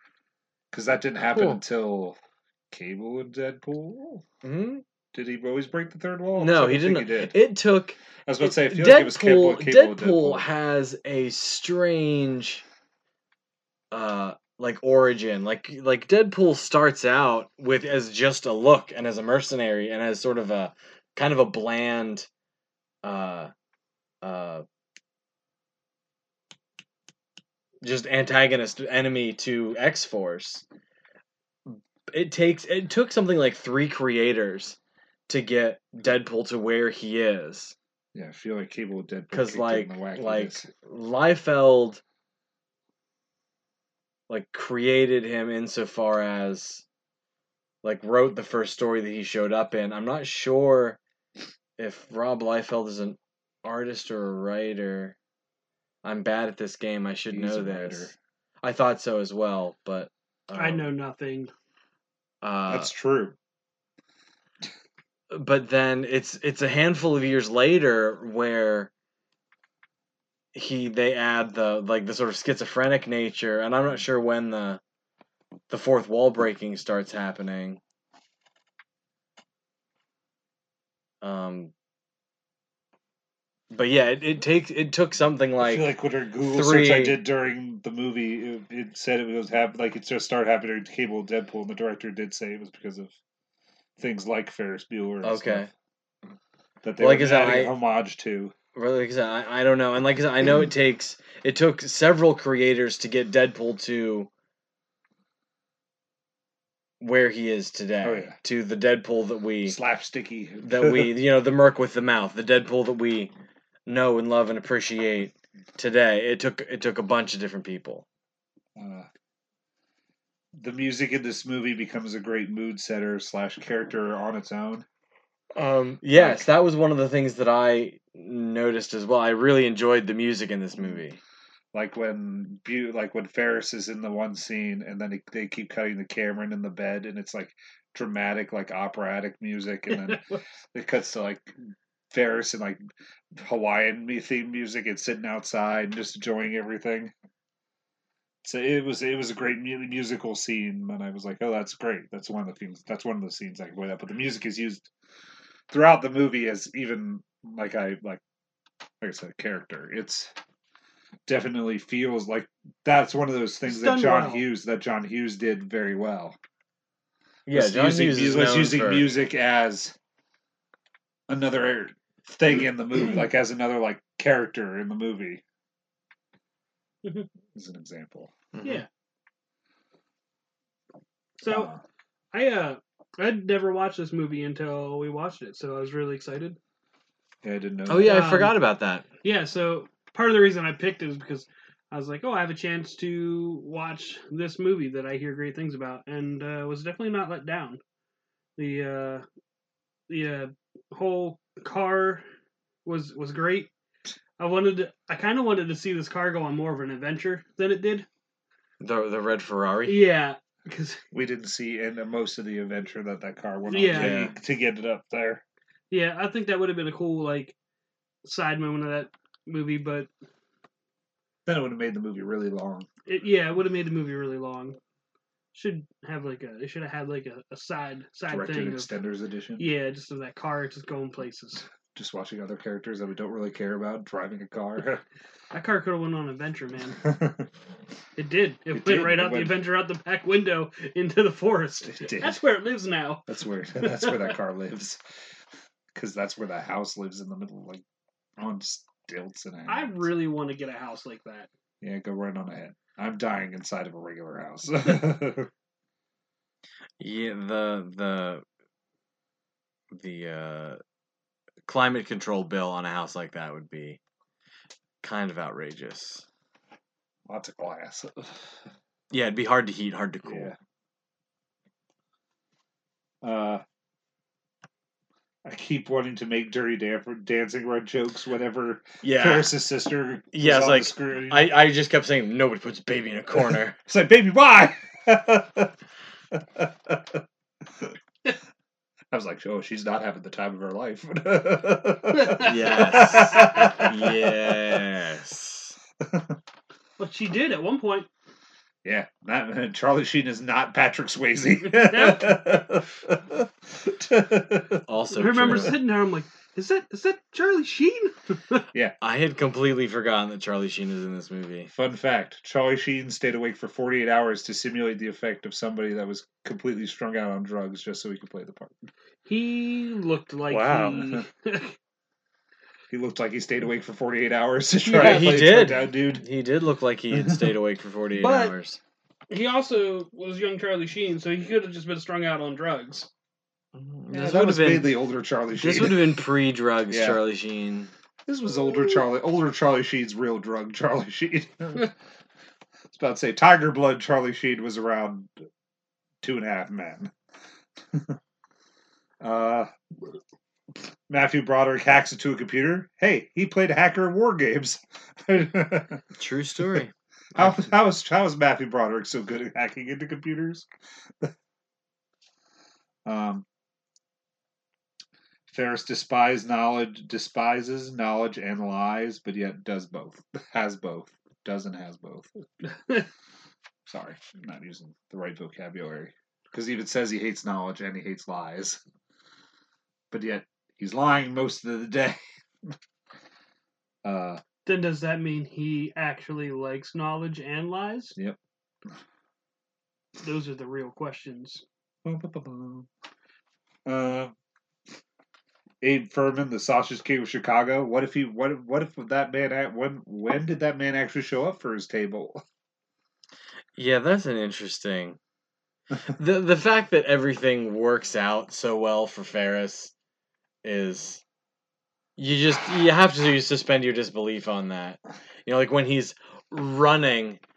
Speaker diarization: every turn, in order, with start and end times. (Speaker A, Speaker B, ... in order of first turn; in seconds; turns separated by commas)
Speaker A: 0.7-2.2, Speaker B: 1.3-1.6, Speaker A: 2.7-4.2, Speaker B: 4.4-4.8, Speaker A: 5.1-7.3, Speaker B: 6.3-12.6, Speaker A: 8.2-10.5, Speaker B: 13.9-22.3, Speaker B: 23.0-23.5, Speaker B: 24.2-24.6, Speaker B: 27.8-30.6, Speaker B: 31.6-37.7, Speaker A: 38.1-40.7, Speaker B: 39.3-42.0, Speaker B: 44.3-46.8, Speaker B: 47.8-51.0, Speaker B: 51.8-55.1, Speaker B: 56.0-58.1, Speaker A: 57.3-58.1, Speaker B: 58.6-60.9, Speaker C: 60.5-61.5, Speaker B: 62.4-62.9, Speaker A: 62.7-63.4, Speaker B: 65.3-68.9, Speaker B: 70.5-74.8, Speaker B: 75.7-77.8, Speaker B: 81.2-81.7, Speaker B: 83.7-85.9, Speaker A: 85.6-93.1, Speaker B: 86.4-87.2, Speaker A: 94.0-95.7, Speaker B: 95.2-95.7, Speaker A: 96.8-98.5, Speaker B: 97.0-97.7, Speaker B: 98.7-104.3, Speaker B: 107.0-109.8, Speaker A: 108.0-108.3, Speaker A: 109.7-111.1, Speaker B: 110.6-113.3, Speaker B: 113.8-118.0, Speaker A: 118.8-119.1, Speaker A: 120.5-124.8, Speaker B: 125.5-131.2, Speaker A: 126.1-126.5, Speaker A: 131.7-140.2, Speaker C: 139.9-140.4, Speaker A: 140.7-141.5, Speaker A: 142.1-142.8, Speaker A: 143.3-147.1, Speaker A: 148.4-154.9, Speaker A: 155.7-158.2, Speaker A: 159.0-160.3, Speaker A: 161.3-166.4, Speaker C: 163.7-164.4, Speaker B: 167.5-169.1, Speaker A: 167.5-169.9, Speaker A: 171.3-175.4, Speaker A: 177.5-178.3, Speaker B: 178.5-178.8, Speaker C: 181.4-181.7, Speaker A: 181.4-181.8, Speaker C: 182.3-186.6, Speaker A: 187.4-188.2, Speaker B: 187.9-189.0, Speaker C: 188.0-188.6, Speaker C: 189.2-197.8, Speaker C: 198.6-199.2, Speaker C: 200.1-202.2, Speaker C: 202.8-203.7, Speaker C: 204.4-208.1, Speaker B: 208.8-210.0, Speaker C: 209.9-211.0, Speaker A: 211.1-215.4, Speaker C: 213.7-214.2, Speaker B: 213.9-214.3, Speaker C: 215.9-217.5, Speaker C: 218.2-220.1, Speaker A: 221.4-222.9, Speaker C: 223.1-224.8, Speaker C: 225.5-228.9, Speaker A: 228.3-229.7, Speaker C: 229.6-231.6, Speaker A: 231.9-235.0, Speaker C: 235.5-237.0, Speaker A: 237.0-237.5, Speaker C: 238.2-243.3, Speaker A: 238.7-239.6, Speaker A: 241.8-242.4, Speaker A: 243.3-245.0, Speaker C: 243.8-244.3, Speaker A: 245.9-247.8, Speaker A: 248.4-250.1, Speaker C: 249.7-251.5, Speaker A: 251.8-255.5, Speaker B: 257.0-258.4, Speaker B: 259.9-260.8, Speaker B: 261.7-264.0, Speaker B: 265.0-266.2, Speaker A: 267.3-268.5, Speaker B: 269.1-270.5, Speaker A: 270.3-270.5, Speaker A: 273.2-273.6, Speaker A: 275.4-281.5, Speaker B: 279.0-279.5, Speaker B: 280.3-283.8, Speaker A: 283.3-285.7, Speaker A: 286.3-287.9, Speaker A: 289.1-294.8, Speaker C: 292.1-293.8, Speaker B: 292.4-295.8, Speaker A: 296.0-296.4, Speaker C: 297.0-298.1, Speaker A: 298.8-305.8, Speaker C: 301.7-302.4, Speaker B: 304.9-305.8, Speaker C: 305.1-308.6, Speaker B: 309.0-311.7, Speaker A: 311.7-318.8, Speaker C: 319.2-321.8, Speaker A: 320.5-321.2, Speaker A: 322.9-326.2, Speaker C: 324.8-325.4, Speaker B: 324.9-328.8, Speaker A: 327.1-327.5, Speaker C: 328.2-328.5, Speaker C: 329.3-333.1, Speaker B: 333.7-334.9, Speaker A: 334.1-336.1, Speaker B: 335.6-337.9, Speaker A: 336.9-337.2, Speaker A: 338.3-341.9, Speaker A: 342.9-345.3, Speaker A: 346.2-347.1, Speaker A: 347.9-348.2, Speaker A: 349.2-349.7, Speaker A: 351.1-356.0, Speaker B: 356.2-356.9, Speaker A: 357.3-360.7, Speaker A: 363.0-363.4, Speaker A: 365.5-372.3, Speaker C: 372.7-373.1, Speaker A: 373.9-378.8, Speaker A: 380.1-382.7, Speaker A: 384.0-384.4, Speaker C: 384.6-388.1, Speaker C: 390.2-391.6, Speaker A: 392.0-392.9, Speaker A: 393.9-394.3, Speaker A: 395.8-402.4, Speaker B: 403.8-405.2, Speaker B: 406.1-409.9, Speaker B: 410.6-411.2, Speaker B: 412.2-417.4